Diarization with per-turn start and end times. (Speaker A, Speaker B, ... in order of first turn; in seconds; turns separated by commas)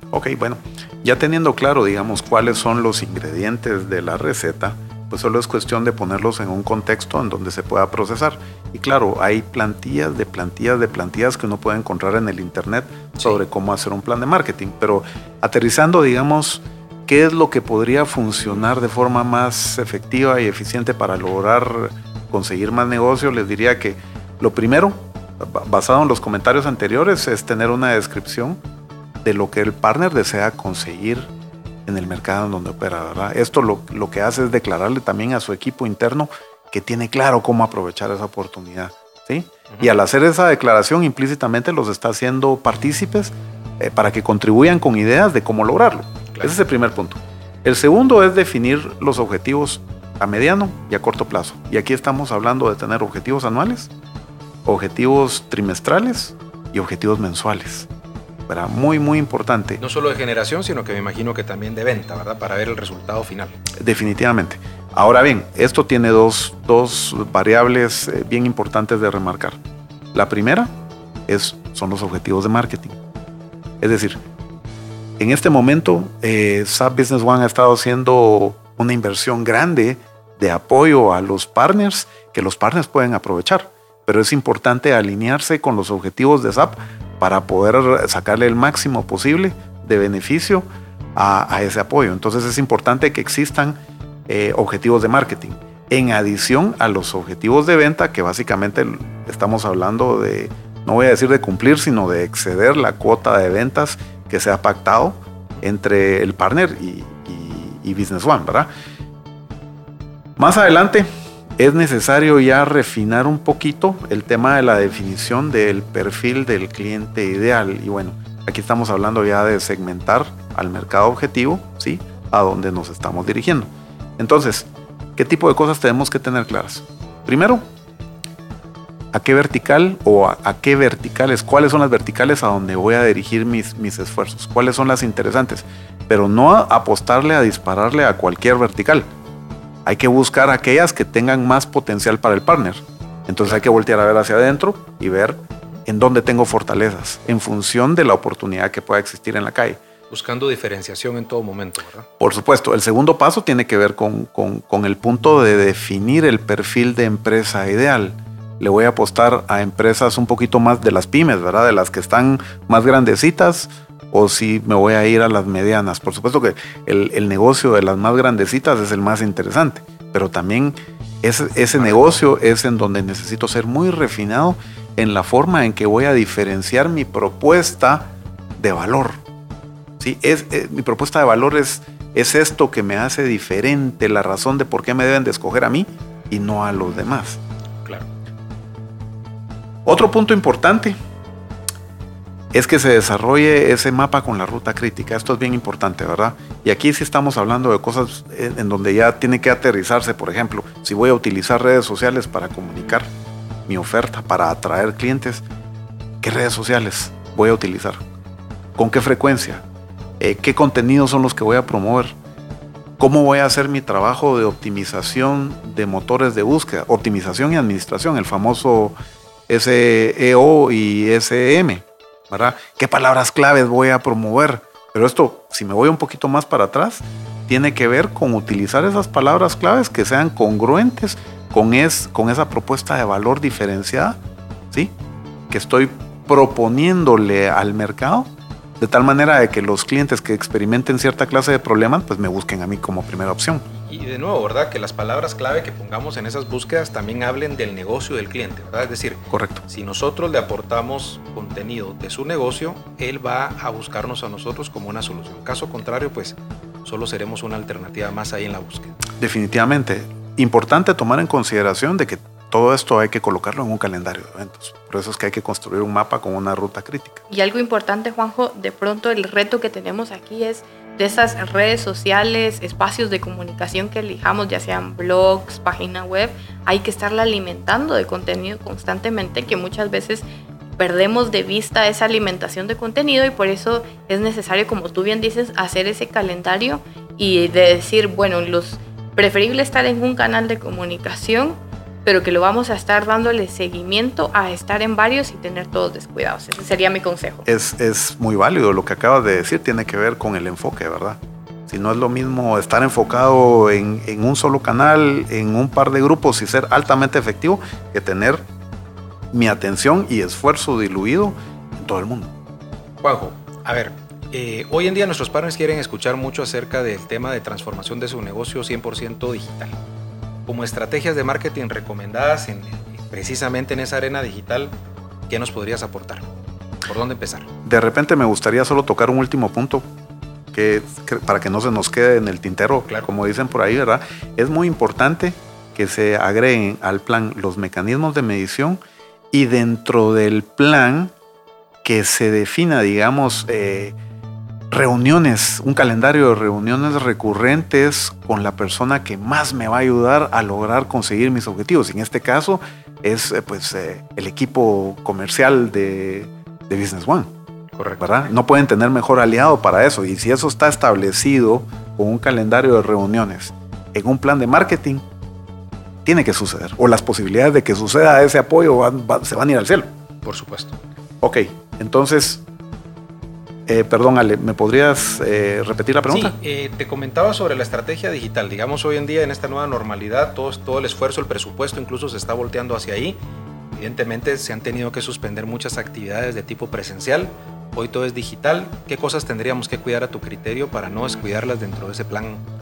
Speaker A: 0.1-28.6, Speaker A: 29.2-31.3, Speaker A: 31.9-53.9, Speaker A: 54.6-57.9, Speaker A: 58.5-59.8, Speaker B: 59.8-63.6, Speaker A: 63.8-69.6, Speaker A: 70.1-70.7, Speaker A: 71.3-73.0, Speaker A: 73.8-74.2, Speaker A: 75.2-108.7, Speaker A: 110.4-127.6, Speaker A: 129.1-139.1, Speaker A: 139.8-149.8, Speaker B: 150.1-152.1, Speaker A: 152.2-179.2, Speaker B: 171.7-172.2, Speaker A: 180.0-187.4, Speaker A: 189.8-190.9, Speaker A: 192.5-203.1, Speaker A: 203.7-205.4, Speaker A: 206.2-208.0, Speaker A: 208.8-209.6, Speaker A: 210.2-212.1, Speaker A: 213.0-218.9, Speaker A: 219.5-234.2, Speaker A: 235.5-243.6, Speaker B: 243.7-258.9, Speaker A: 249.3-249.6, Speaker A: 259.2-267.2, Speaker C: 267.3-280.2, Speaker C: 280.8-297.4, Speaker A: 297.4-308.4, Speaker A: 309.3-312.3, Speaker B: 313.0-319.8, Speaker B: 320.5-324.7, Speaker B: 325.3-326.3, Speaker B: 326.8-327.5, Speaker A: 327.6-329.9, Speaker A: 330.5-338.8, Speaker A: 339.3-341.1, Speaker A: 341.8-343.9, Speaker A: 344.7-357.3, Speaker B: 357.7-358.1, Speaker A: 358.0-365.0, Speaker A: 366.0-369.9, Speaker B: 370.2-370.8, Speaker A: 371.2-372.4, Speaker A: 373.7-376.3, Speaker B: 376.1-383.2, Speaker B: 383.7-392.4